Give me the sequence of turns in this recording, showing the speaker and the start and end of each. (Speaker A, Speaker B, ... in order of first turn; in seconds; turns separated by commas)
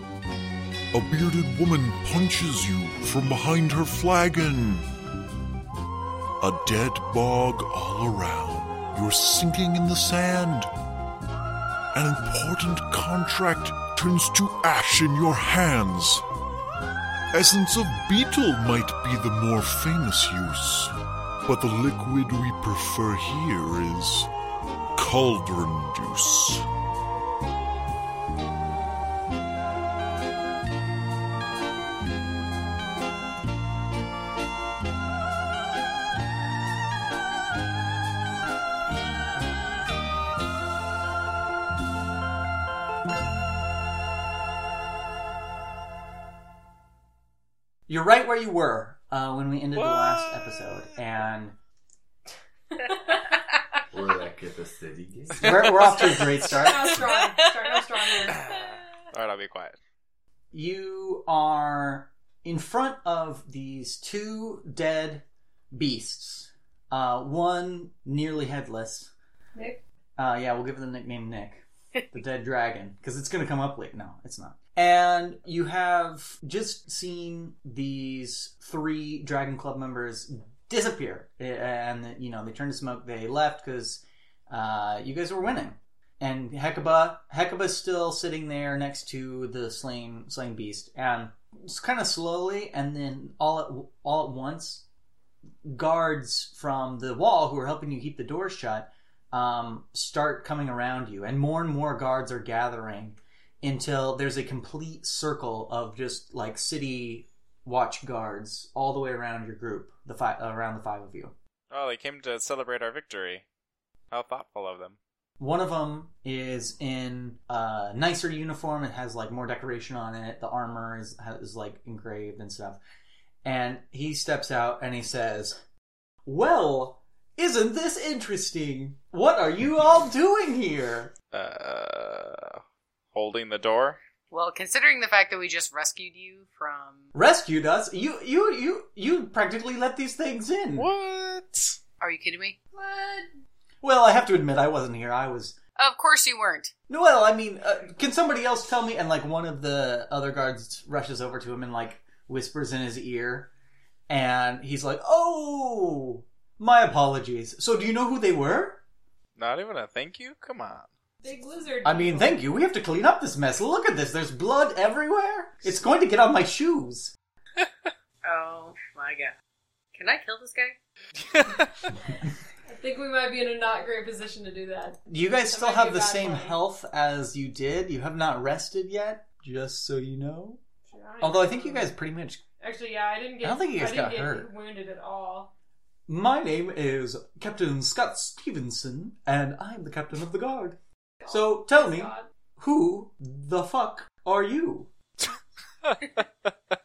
Speaker A: 0.9-4.8, Speaker A: 6.4-10.7, Speaker A: 11.9-16.2, Speaker A: 17.3-20.9, Speaker A: 21.4-24.3, Speaker A: 25.0-26.6, Speaker B: 47.9-51.5, Speaker C: 49.8-50.6, Speaker D: 53.9-55.9, Speaker B: 55.4-57.0, Speaker E: 56.1-58.5, Speaker F: 56.9-58.8, Speaker C: 59.1-59.8, Speaker B: 60.5-69.1, Speaker E: 69.5-69.8, Speaker B: 70.2-94.8, Speaker B: 95.7-111.3, Speaker C: 111.7-113.5, Speaker C: 114.1-115.0, Speaker B: 115.4-122.8, Speaker B: 123.4-125.6, Speaker B: 126.2-131.1, Speaker C: 131.3-132.6, Speaker C: 133.1-134.0, Speaker F: 134.3-137.1, Speaker B: 137.1-140.9, Speaker C: 140.8-141.8, Speaker F: 142.0-142.6, Speaker E: 142.7-143.3, Speaker B: 143.8-145.6, Speaker F: 145.8-146.7, Speaker B: 146.9-153.5, Speaker B: 154.1-158.8, Speaker C: 159.4-160.9, Speaker E: 161.2-162.4, Speaker B: 161.8-167.1, Speaker F: 168.2-169.3, Speaker F: 169.9-170.8, Speaker C: 171.3-171.6, Speaker E: 172.7-175.0, Speaker B: 175.1-180.6, Speaker E: 175.5-176.6, Speaker E: 180.9-181.9, Speaker B: 181.2-182.4, Speaker E: 182.6-185.5, Speaker B: 183.4-184.5, Speaker B: 186.1-190.8, Speaker E: 191.2-192.3, Speaker B: 191.3-194.9